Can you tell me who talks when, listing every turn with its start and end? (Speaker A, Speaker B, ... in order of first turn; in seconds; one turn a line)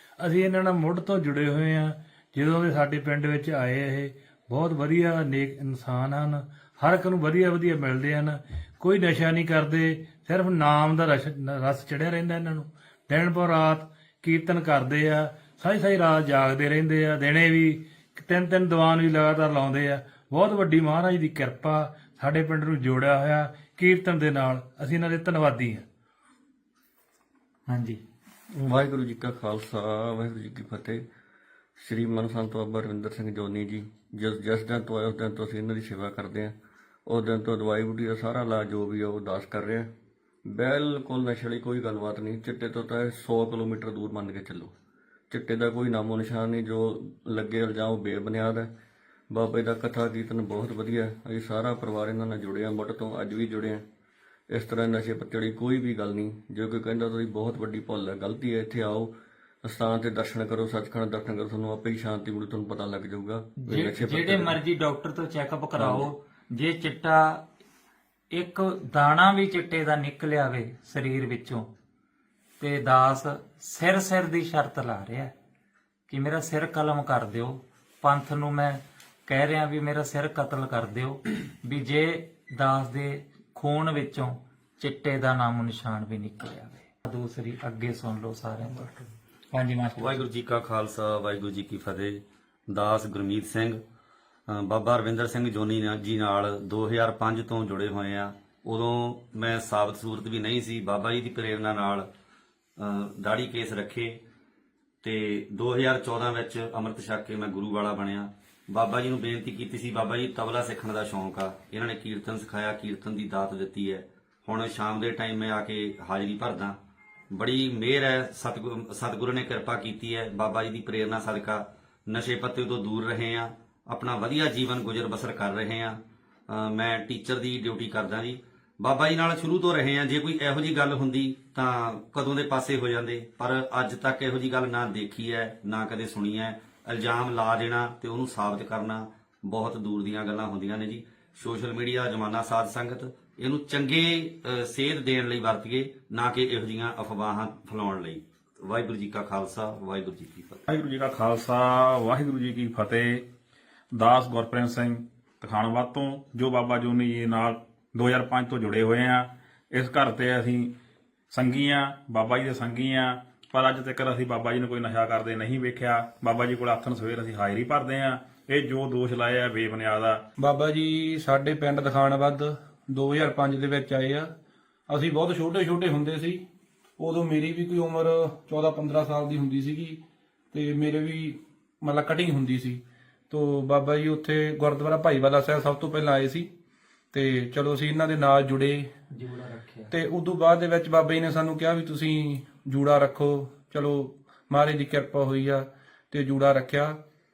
Speaker A: 0.2-25.9
Speaker B: 27.7-28.0
Speaker C: 28.5-31.0
Speaker C: 31.8-39.9
Speaker C: 40.5-44.7
Speaker C: 45.3-48.7
Speaker C: 49.3-53.8
Speaker C: 54.5-64.6
Speaker B: 63.6-67.4
Speaker C: 65.8-66.1
Speaker B: 68.3-71.7
Speaker B: 72.6-75.3
Speaker B: 76.1-90.2
Speaker D: 90.0-93.8
Speaker D: 94.5-102.1
Speaker D: 102.8-104.2
Speaker D: 105.0-116.8
Speaker D: 117.3-126.0
Speaker D: 126.5-150.6
Speaker E: 150.7-153.2
Speaker E: 153.9-160.7
Speaker E: 161.3-170.2
Speaker F: 170.4-174.3
Speaker F: 174.9-176.4
Speaker F: 177.0-180.0
Speaker F: 180.5-186.5
Speaker F: 187.1-188.8
Speaker B: 189.1-189.9
Speaker F: 190.0-196.9